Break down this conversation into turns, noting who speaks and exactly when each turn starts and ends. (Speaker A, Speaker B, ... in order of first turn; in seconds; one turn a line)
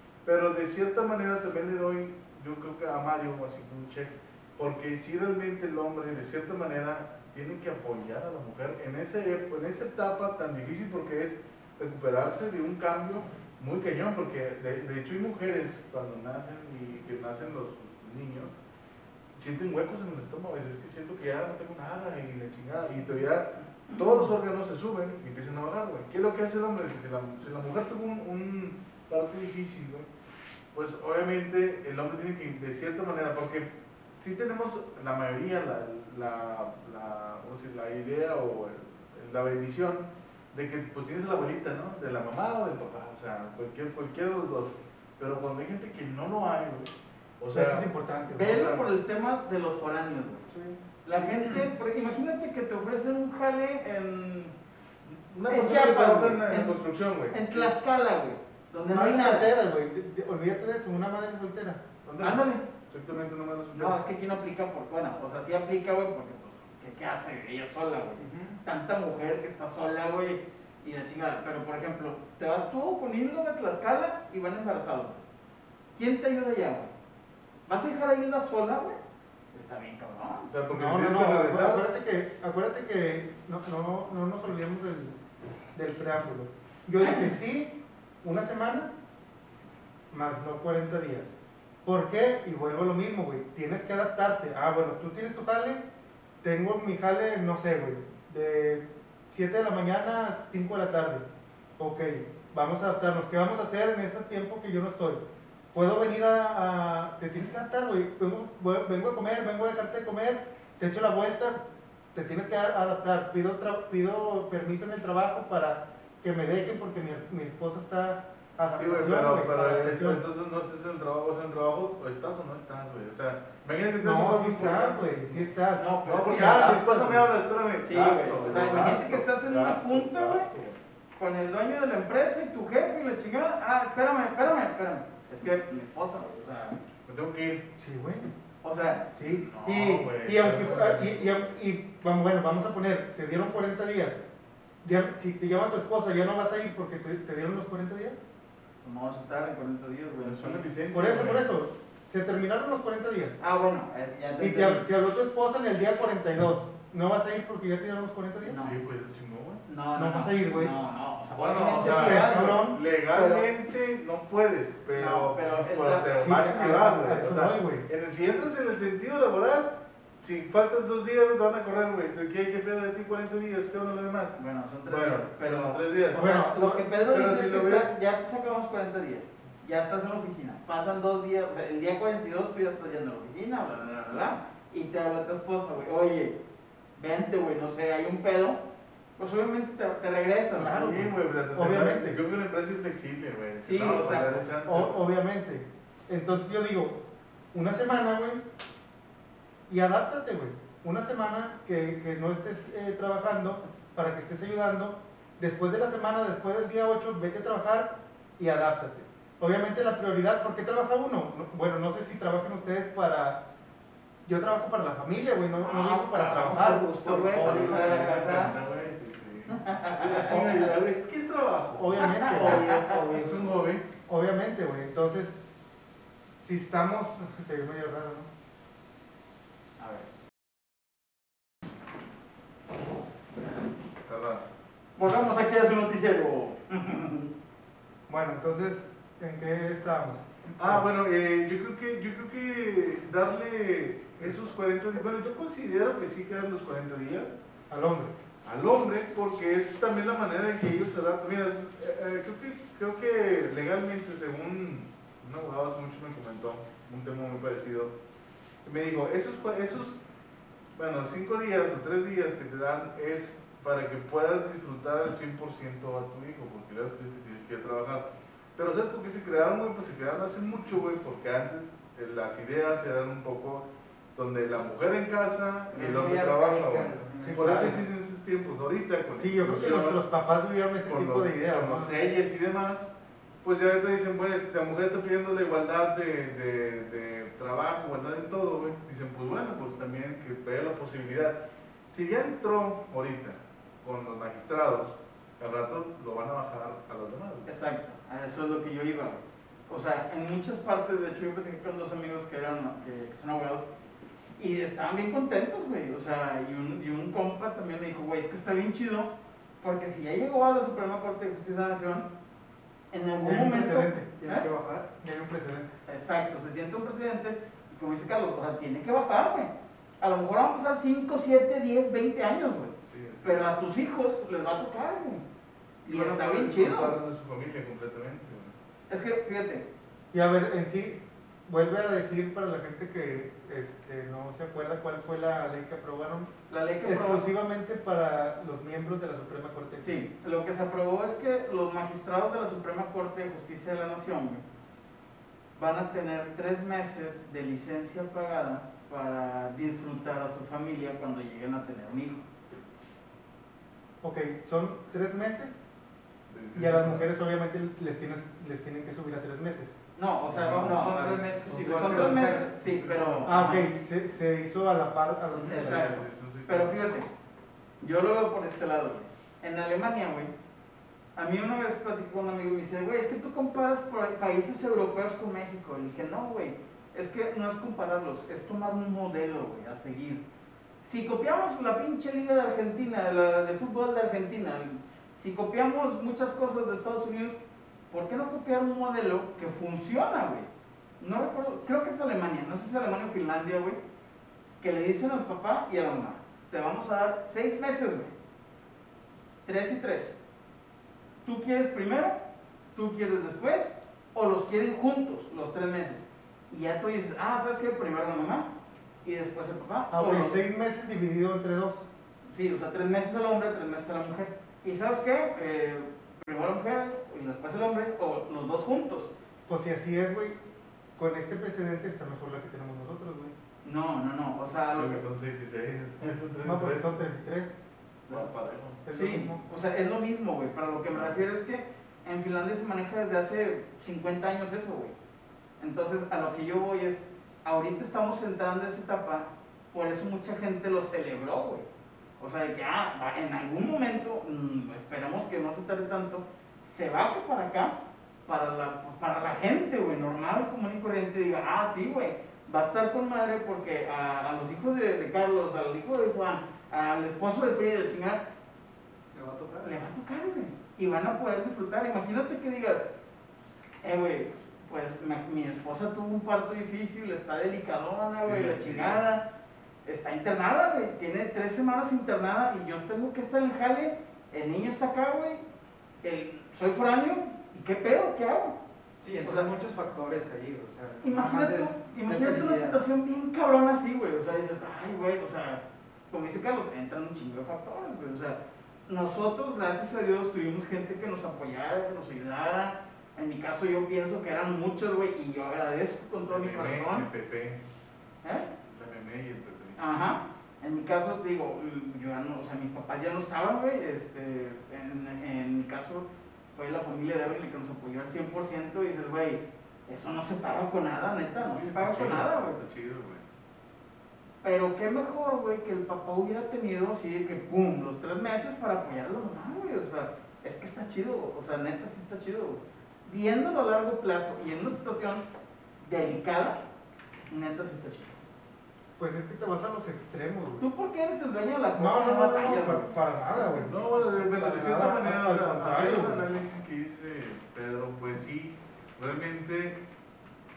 Speaker A: 0.2-18.5
Speaker A: 19.4-30.1
Speaker A: 30.7-33.7
Speaker A: 34.2-48.9
Speaker B: 47.5-48.6
Speaker C: 48.3-50.5
Speaker C: 51.0-54.5
Speaker A: 55.1-57.7
Speaker C: 55.5-56.8
Speaker C: 57.3-59.5
Speaker B: 58.9-61.8
Speaker A: 62.0-64.0
Speaker C: 62.2-62.6
Speaker C: 63.7-75.2
Speaker D: 68.2-68.6
Speaker C: 75.9-76.9
Speaker C: 77.7-79.0
Speaker C: 79.5-80.5
Speaker A: 80.5-81.8
Speaker B: 80.7-85.2
Speaker B: 85.7-88.9
Speaker B: 90.1-91.3
Speaker B: 91.8-95.8
Speaker B: 96.4-101.2
Speaker B: 101.8-105.2
Speaker B: 105.7-111.6
Speaker B: 112.1-120.2
Speaker A: 118.7-125.5
Speaker B: 124.0-127.2
Speaker C: 125.8-127.1
Speaker A: 126.0-130.8
Speaker C: 127.8-130.5
Speaker C: 131.2-136.8
Speaker A: 137.1-137.6
Speaker B: 137.8-138.3
Speaker C: 138.6-139.1
Speaker B: 139.1-144.2
Speaker A: 139.2-141.3
Speaker B: 144.8-148.2
Speaker C: 148.8-150.6
Speaker A: 150.2-151.5
Speaker B: 150.9-153.4
Speaker C: 153.4-154.9
Speaker B: 154.4-158.6
Speaker C: 158.4-158.8
Speaker A: 158.6-159.6
Speaker C: 159.7-163.4
Speaker B: 159.9-160.7
Speaker A: 161.3-176.4
Speaker B: 161.8-162.8
Speaker C: 164.9-166.1
Speaker B: 166.2-167.8
Speaker C: 174.3-186.4
Speaker B: 176.1-176.8
Speaker A: 177.0-177.9
Speaker C: 186.9-188.6
Speaker C: 189.2-190.9
Speaker B: 190.5-192.2
Speaker A: 190.7-195.0
Speaker C: 193.6-194.4
Speaker B: 194.6-197.0
Speaker B: 197.5-198.4
Speaker B: 199.7-213.4
Speaker B: 214.2-218.5
Speaker C: 215.6-218.5
Speaker A: 217.3-223.8
Speaker C: 219.5-220.7
Speaker B: 221.8-225.3
Speaker C: 222.0-222.8
Speaker B: 226.4-228.3
Speaker C: 229.8-230.1
Speaker A: 234.1-234.4
Speaker C: 235.0-237.3
Speaker B: 238.1-240.8
Speaker A: 240.6-247.3
Speaker B: 247.7-248.1
Speaker A: 248.4-257.9
Speaker A: 258.6-260.0
Speaker A: 260.8-280.0
Speaker D: 275.7-277.8
Speaker B: 277.2-277.8
Speaker B: 279.2-282.0
Speaker A: 280.9-282.9
Speaker A: 283.4-291.4
Speaker A: 291.9-297.5
Speaker C: 297.4-303.7
Speaker C: 304.4-312.1
Speaker C: 312.9-314.5
Speaker B: 313.2-314.1
Speaker D: 314.2-314.9
Speaker B: 315.0-315.7
Speaker C: 315.9-325.2
Speaker A: 322.9-323.5
Speaker C: 325.8-326.9
Speaker A: 325.9-328.5
Speaker C: 328.9-329.6
Speaker B: 330.1-336.3
Speaker C: 336.5-337.2
Speaker B: 336.8-340.0
Speaker C: 339.8-344.4
Speaker C: 345.6-352.2
Speaker B: 354.0-355.7
Speaker A: 356.3-357.1
Speaker B: 356.5-359.8
Speaker C: 359.9-363.7
Speaker A: 360.3-363.4
Speaker D: 360.3-362.6
Speaker B: 363.2-365.9
Speaker A: 365.5-366.7
Speaker C: 365.5-367.1
Speaker C: 367.8-370.3
Speaker C: 371.1-380.2
Speaker C: 380.8-387.4
Speaker C: 387.9-390.5
Speaker C: 391.0-393.8
Speaker C: 394.6-398.1
Speaker C: 399.4-400.1
Speaker C: 401.2-402.2
Speaker C: 402.7-408.5
Speaker C: 409.0-410.4
Speaker B: 409.9-411.9
Speaker C: 412.3-419.1
Speaker B: 419.5-420.4
Speaker B: 421.0-423.3
Speaker C: 423.6-425.0
Speaker A: 424.7-426.9
Speaker B: 426.4-427.6
Speaker A: 428.1-428.8
Speaker B: 428.8-429.4
Speaker C: 428.9-434.9
Speaker C: 435.6-441.6
Speaker C: 442.2-447.7
Speaker C: 448.2-458.2
Speaker D: 459.1-459.8
Speaker C: 459.6-462.9
Speaker C: 463.8-469.2
Speaker A: 468.2-469.0
Speaker C: 469.8-475.4
Speaker C: 476.0-478.6
Speaker D: 479.0-482.8
Speaker C: 479.2-479.5
Speaker C: 481.0-497.0
Speaker A: 496.3-497.6
Speaker C: 498.2-498.5
Speaker A: 498.7-499.8
Speaker C: 499.8-512.6
Speaker A: 511.3-513.2
Speaker C: 514.4-525.2
Speaker C: 525.8-526.6
Speaker C: 527.3-528.1
Speaker B: 529.0-530.6
Speaker C: 530.6-532.9
Speaker B: 531.8-536.2
Speaker A: 533.5-539.8